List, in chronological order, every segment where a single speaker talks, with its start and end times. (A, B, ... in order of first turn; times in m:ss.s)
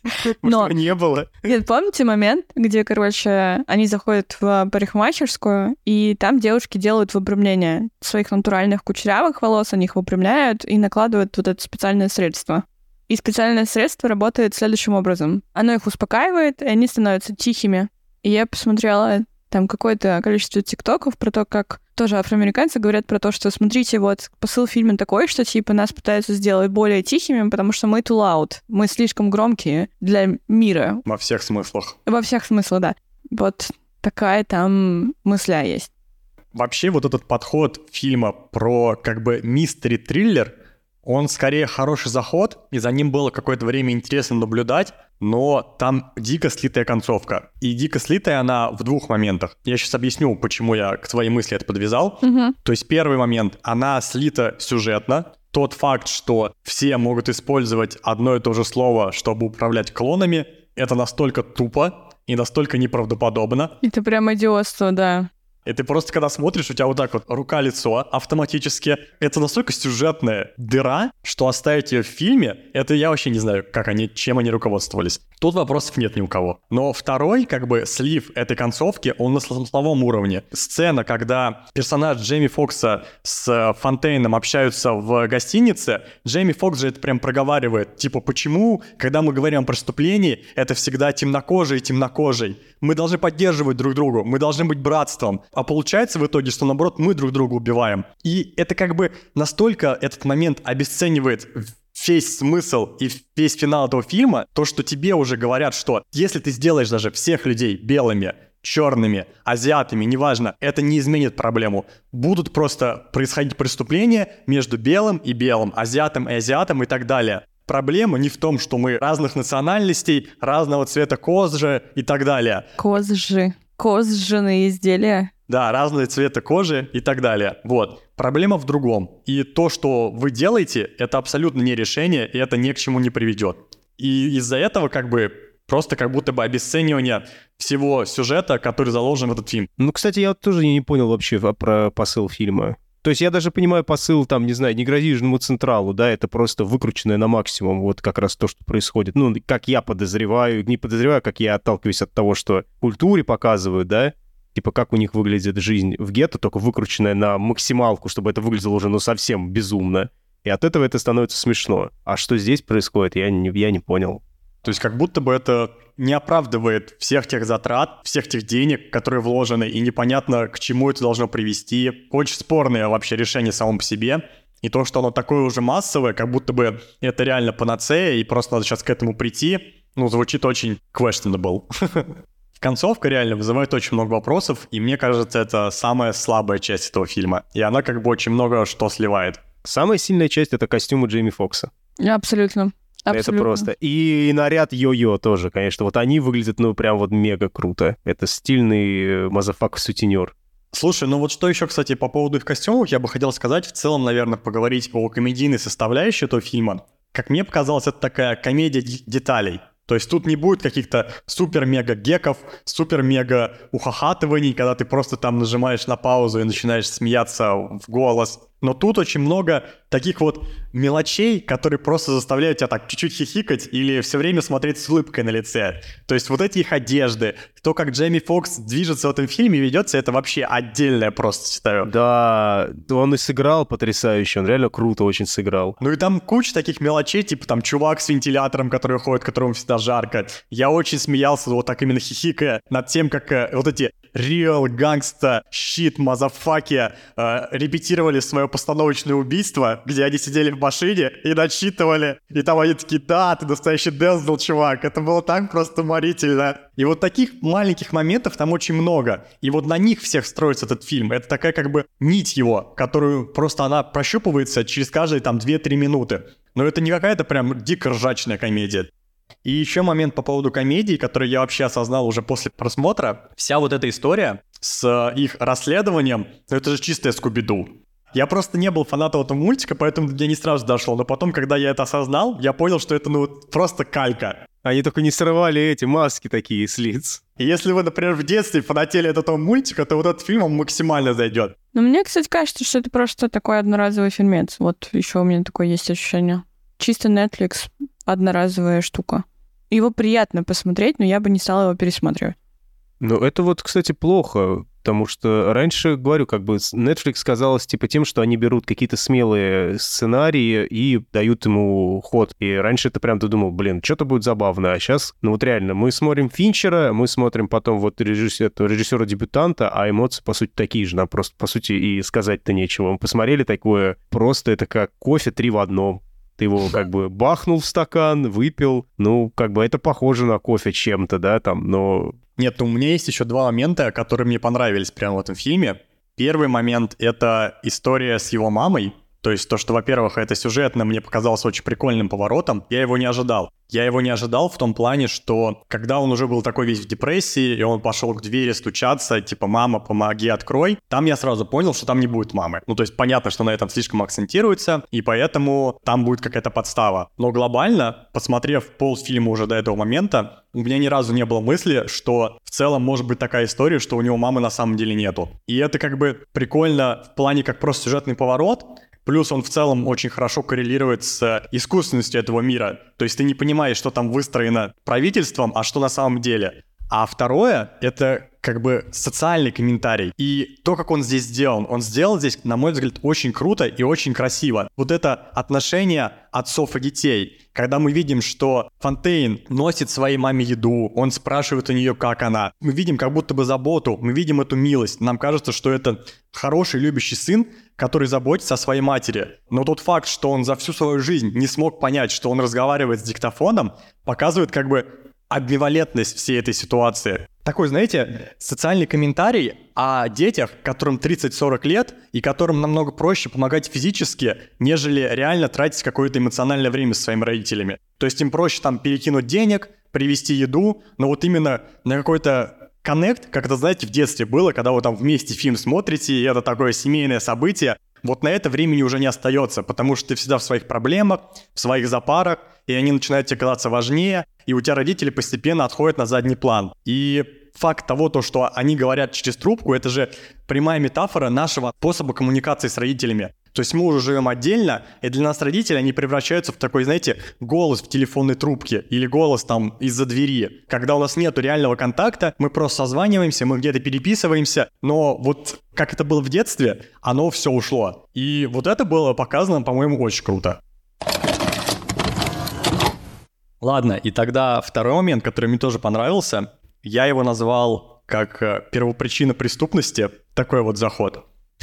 0:00.2-0:01.3 A
0:00.4-0:00.7 B
0:01.4-0:31.0 B
0:31.0-0:32.0 C
0:32.0-0:35.9 B
0:36.5-0:40.5 C
0:41.0-1:03.7 C
0:52.2-0:52.5 B
1:03.8-1:05.3 B
1:05.6-2:02.7 C
2:02.8-2:05.3 B
2:05.5-2:19.7 C
2:19.8-2:44.2 A
2:44.6-3:09.4 C
3:09.6-3:11.7 A
3:12.0-3:13.7 B
3:13.1-3:20.3 A
3:20.7-3:51.9 C
3:51.8-3:55.8 A
3:55.8-4:28.9 C
4:29.4-4:44.4 C
4:44.6-4:47.2 A
4:47.4-4:51.5 C
4:51.7-5:02.4 B
5:03.0-5:32.2 A
5:32.4-7:40.6 C
7:43.6-7:51.2 C